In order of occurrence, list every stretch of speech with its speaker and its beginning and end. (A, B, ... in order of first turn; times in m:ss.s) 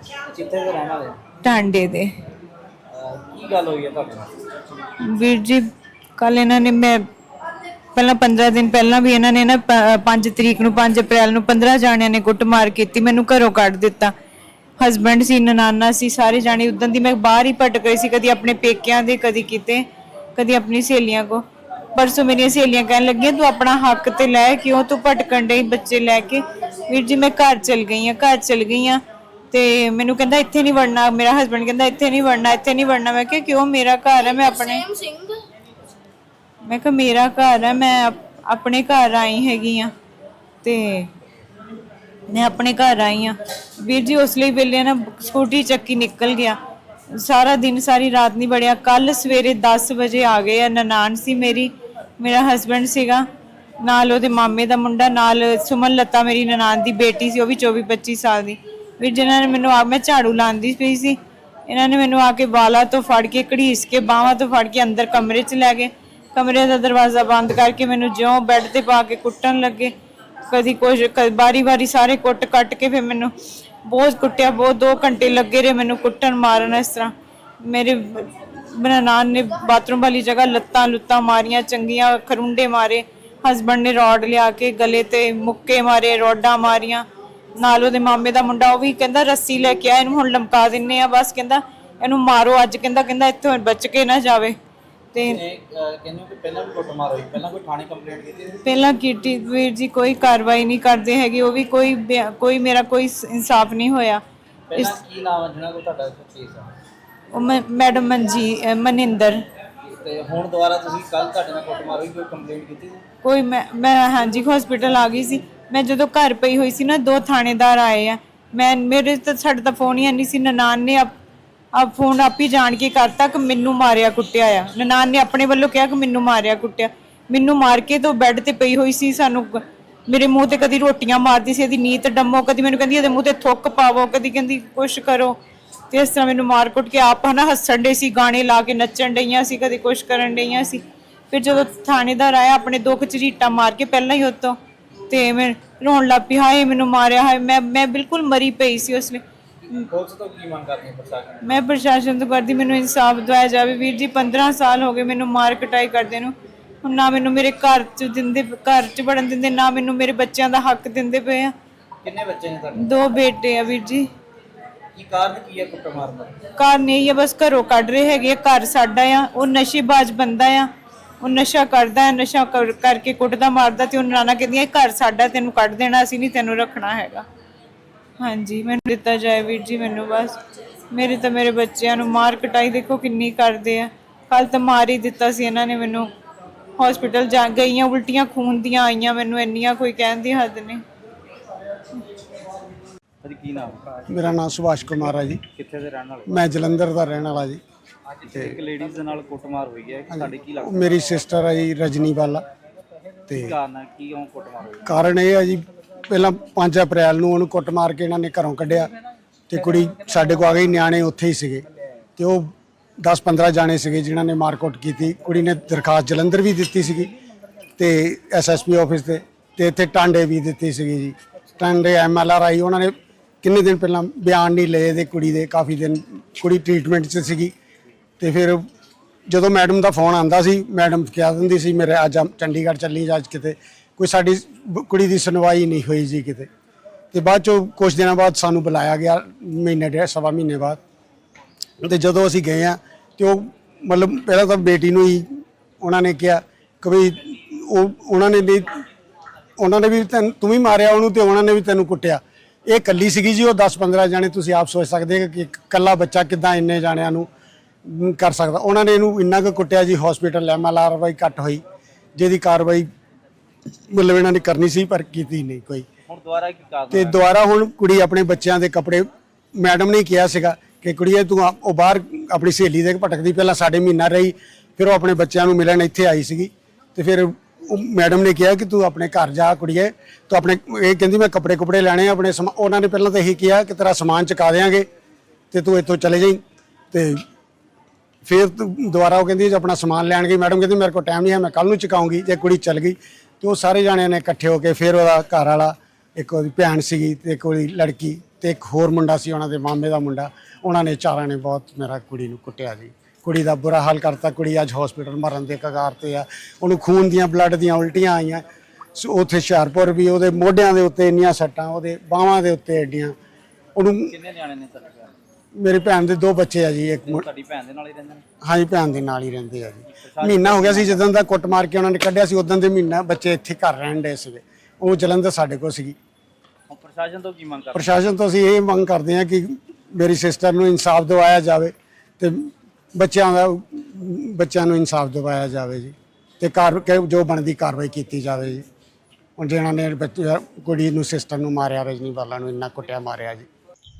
0:00.3-0:01.2 A
0:01.4-0:02.1 B
0:02.9-0:04.3 A
0:05.0-0:05.6 B
0:06.2-0:07.0 B
0:07.9-0:14.1 B
0:14.8-0:21.4 B
0:22.0-0:35.4 B
0:36.6-0:39.9 B
0:40.6-0:41.1 B
0:42.3-0:46.6 B
0:47.1-0:53.2 B
0:53.8-1:09.9 B
1:10.5-1:13.3 B
1:13.8-1:27.0 B
1:27.6-1:34.6 B
1:35.1-1:35.4 B
1:35.2-1:38.6 A
1:38.6-1:44.2 B
1:44.7-1:46.7 A
1:47.3-1:49.4 B
1:49.9-1:53.0 A
1:53.2-2:01.1 B
2:01.7-2:15.4 B
2:15.9-2:24.6 B
2:25.1-2:29.2 B
2:29.7-2:31.5 A
2:31.4-2:41.5 B
2:42.0-2:43.0 A
2:42.8-2:44.1 B
2:44.9-2:46.4 A
2:46.6-2:50.7 B
2:51.2-2:57.2 B
2:58.2-3:00.4 B
3:00.9-3:06.1 B
3:06.8-3:10.8 B
3:13.2-3:14.0 A
3:14.1-3:15.4 C
3:15.5-3:16.4 A
3:16.3-3:17.6 C
3:18.1-3:20.9 A
3:18.3-3:18.6 C
3:20.1-3:22.5 C
3:23.3-3:23.6 C
3:23.3-3:24.9 A
3:24.9-3:28.9 C
3:29.5-3:31.6 C
3:32.2-3:37.1 C
3:37.8-3:47.5 C
3:48.2-3:48.6 C
3:49.3-3:56.5 C
3:57.1-4:00.8 C
4:01.8-4:05.3 C
4:05.8-4:08.8 C
4:09.6-4:17.3 C
4:17.8-4:21.6 C
4:22.2-4:22.9 C
4:23.9-4:25.9 C
4:26.1-4:27.2 A
4:26.9-4:44.9 C
4:45.5-4:46.4 C
4:46.9-4:47.2 C
4:48.2-5:08.4 C
5:08.9-5:13.2 C
5:13.8-5:14.1 C
5:14.0-5:15.1 A
5:15.6-5:17.2 C
5:17.0-5:18.2 A
5:18.4-5:26.0 C
5:19.9-5:21.1 A
5:26.7-5:27.9 A
5:27.7-5:38.6 C
5:39.4-5:43.5 C